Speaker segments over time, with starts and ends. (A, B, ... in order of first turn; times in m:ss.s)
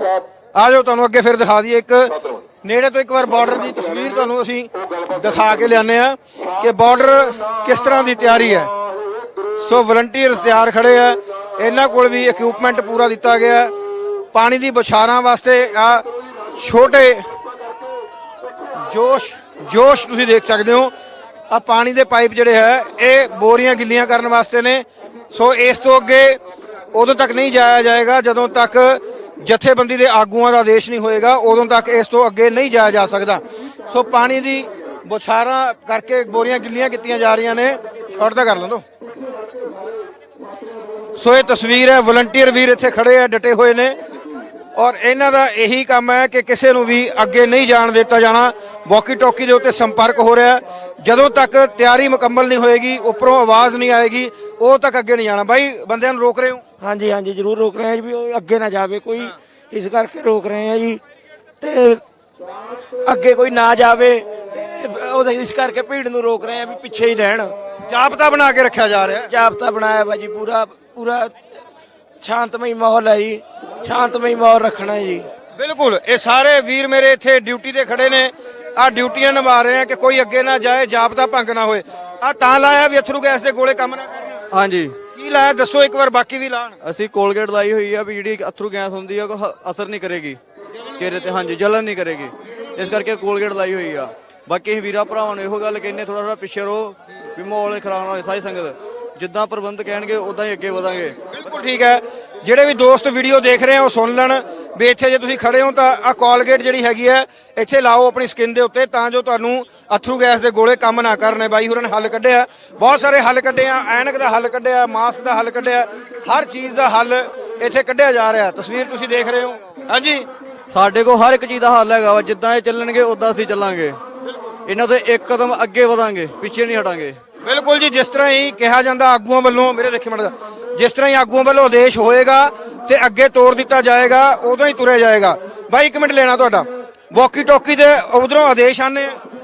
0:00.6-0:08.7 A
0:09.6-0:13.7 A
0:14.3-0:16.0 A
0:16.6-0:17.2 A
0:18.9-0:20.9 A
0:21.5-0:26.4 A
0:26.9-0:38.8 A
0:41.2-0:44.0 A
0:44.8-0:56.6 A
0:56.8-1:01.0 B
1:01.6-1:02.0 B
1:03.0-1:07.5 B
1:07.9-1:09.3 A
1:09.3-1:11.3 B
1:12.2-1:15.3 B
1:15.5-1:24.4 A
1:24.5-1:25.0 C
1:25.1-1:26.8 A
1:26.8-1:30.4 C
1:31.0-1:41.3 C
1:41.3-2:00.2 A
2:00.7-2:04.0 C
2:04.6-2:07.2 C
2:07.4-2:19.2 A